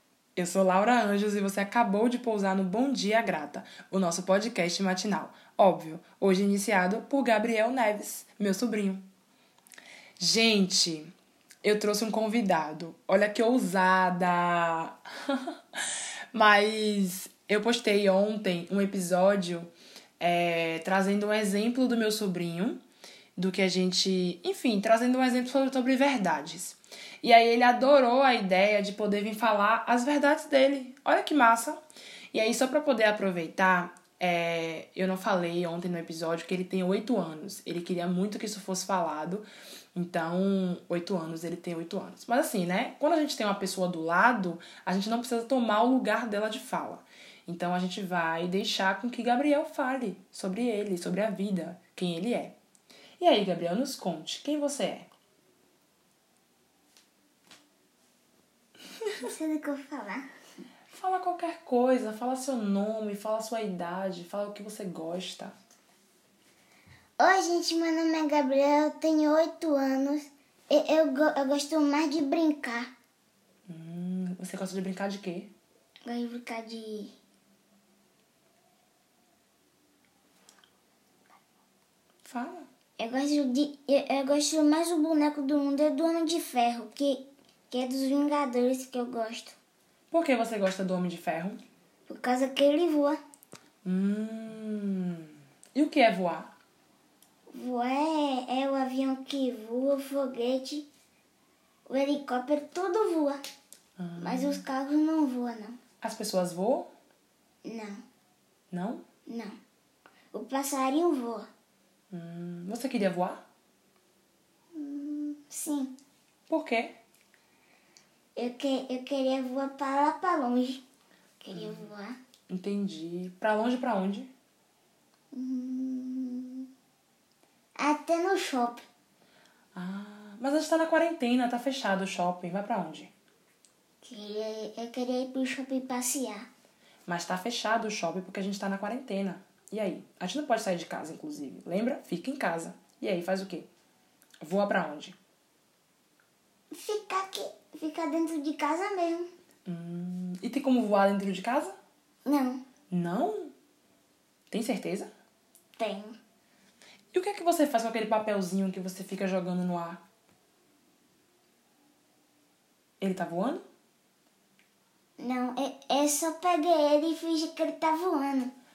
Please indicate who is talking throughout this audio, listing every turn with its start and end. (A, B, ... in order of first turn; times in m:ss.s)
0:00.4-0:09.0 A
0:10.2-0:11.1 A
0:11.6-0:22.8 A
0:23.4-0:31.8 A
0:32.3-0:52.6 A
0:53.2-0:55.1 A
0:59.2-1:00.3 B
1:00.9-1:05.5 A
1:07.2-1:12.9 B
1:13.7-1:15.5 A
1:16.1-1:17.1 B
1:22.2-1:22.7 A
1:23.0-1:29.6 B
1:30.1-1:31.6 A
1:32.1-1:33.2 B
1:33.8-1:36.5 A
1:37.5-1:40.9 B
1:41.9-1:43.4 B
1:44.0-1:44.6 A
1:44.2-1:45.8 B
1:46.0-1:46.9 A
1:47.6-1:48.0 B
1:48.7-1:49.0 A
1:49.3-1:49.6 B
1:50.3-1:51.5 B
1:52.1-1:53.4 A
1:54.7-1:55.9 B
1:56.5-1:56.9 A
1:58.4-2:00.8 B
2:01.4-2:02.2 B
2:01.5-2:01.9 A
2:02.5-2:04.3 A
2:05.3-2:06.7 B
2:07.8-2:08.8 B
2:09.8-2:13.1 A
2:14.0-2:16.5 B
2:17.1-2:23.7 A
2:24.4-2:25.2 A
2:26.7-2:29.3 B
2:29.7-2:31.8 A
2:32.2-2:32.6 B
2:32.9-2:33.5 A
2:34.5-2:35.1 A
2:35.8-2:36.2 B
2:37.1-2:40.0 A
2:43.0-2:43.6 A
2:45.2-2:48.5 B